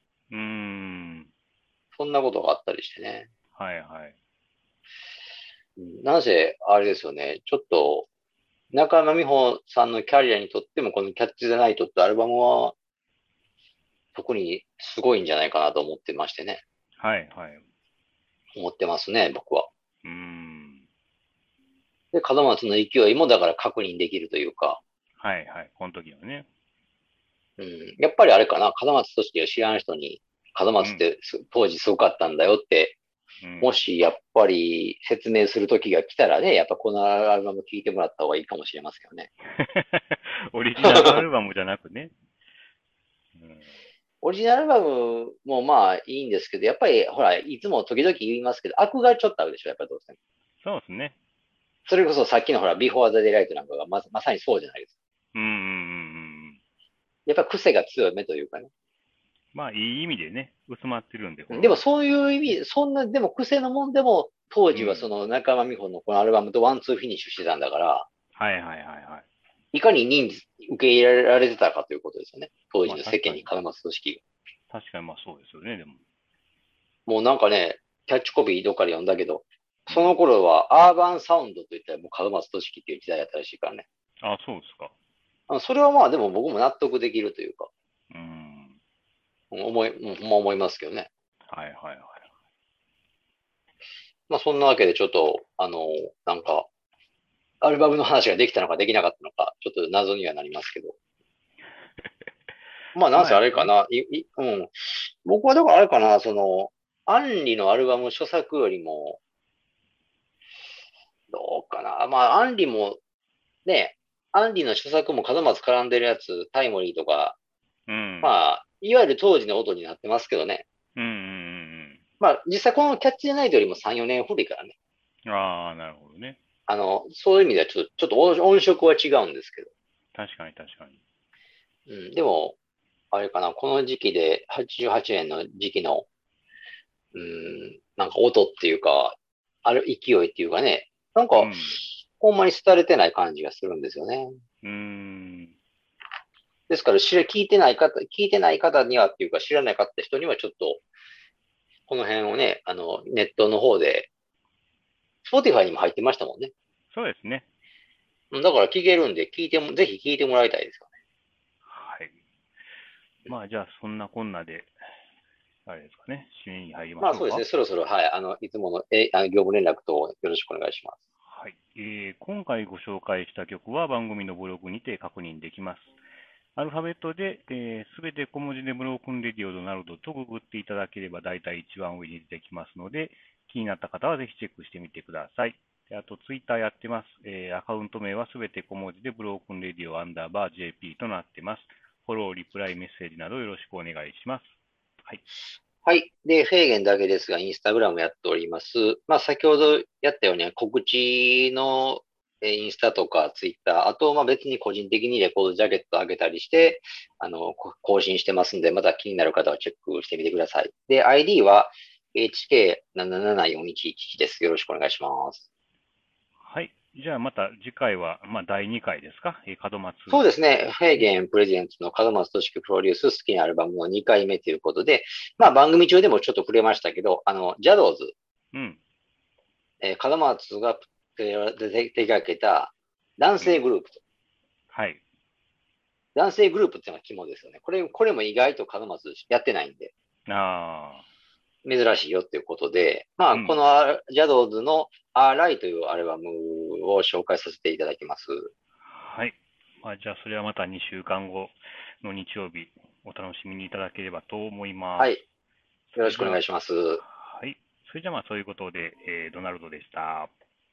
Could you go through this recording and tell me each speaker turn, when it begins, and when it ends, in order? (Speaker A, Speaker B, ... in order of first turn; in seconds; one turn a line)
Speaker A: 0.3-1.3
Speaker B: 1.9-3.3
Speaker A: 3.5-4.1
Speaker B: 5.8-8.1
Speaker B: 8.7-12.7
Speaker B: 14.1-16.6
Speaker A: 17.0-17.6
Speaker B: 18.5-19.7
Speaker A: 20.0-20.8
Speaker B: 22.1-24.8
Speaker A: 25.2-26.5
Speaker B: 27.6-33.0
Speaker A: 33.4-33.7
Speaker B: 33.6-39.3
Speaker A: 39.6-42.1
Speaker B: 40.8-41.2
Speaker A: 43.4-43.7
Speaker B: 44.2-50.1
Speaker A: 50.6-51.1
Speaker B: 51.9-54.9
Speaker A: 55.3-56.6
Speaker B: 57.2-58.7
Speaker A: 59.5-61.8
Speaker B: 61.5-68.0
Speaker A: 64.7-65.1
Speaker A: 68.3-69.2
Speaker B: 69.7-74.2
Speaker A: 72.8-73.5
Speaker A: 74.7-76.0
Speaker B: 77.1-83.8
Speaker A: 79.9-80.1
Speaker A: 84.2-84.9
Speaker B: 85.5-87.7
Speaker A: 88.1-88.8
Speaker B: 89.5-91.1
Speaker A: 91.5-92.2
Speaker B: 94.3-96.7
Speaker B: 97.6-100.9
Speaker A: 102.0-102.3
Speaker B: 102.9-109.2
Speaker A: 103.1-103.7
Speaker B: 111.3-113.0
Speaker B: 113.6-117.4
Speaker A: 117.9-118.4
Speaker B: 118.2-120.6
Speaker A: 121.0-122.0
Speaker B: 122.2-124.7
Speaker A: 125.2-126.4
Speaker B: 126.7-129.7
Speaker A: 130.1-131.0
Speaker B: 131.9-132.6
Speaker B: 133.1-136.1
Speaker B: 137.1-141.5
Speaker A: 141.3-141.8
Speaker B: 142.2-144.3
Speaker A: 144.6-145.5
Speaker B: 146.7-150.8
Speaker B: 151.9-154.1
Speaker B: 155.2-156.5
Speaker A: 156.9-157.4
Speaker B: 158.3-160.9
Speaker A: 161.7-162.2
Speaker A: 163.3-164.7
Speaker A: 165.7-167.4
Speaker B: 167.0-171.0
Speaker A: 171.3-175.9
Speaker A: 176.6-194.5
Speaker B: 195.8-215.4
Speaker A: 216.4-220.2
Speaker B: 220.1-228.1
Speaker A: 228.5-228.8
Speaker B: 229.8-234.0
Speaker A: 234.7-235.0
Speaker B: 236.1-239.9
Speaker A: 240.3-241.0
Speaker B: 241.6-248.5
Speaker A: 243.3-243.6
Speaker A: 248.8-255.2
Speaker A: 255.9-256.4
Speaker B: 255.9-257.0
Speaker A: 257.0-260.3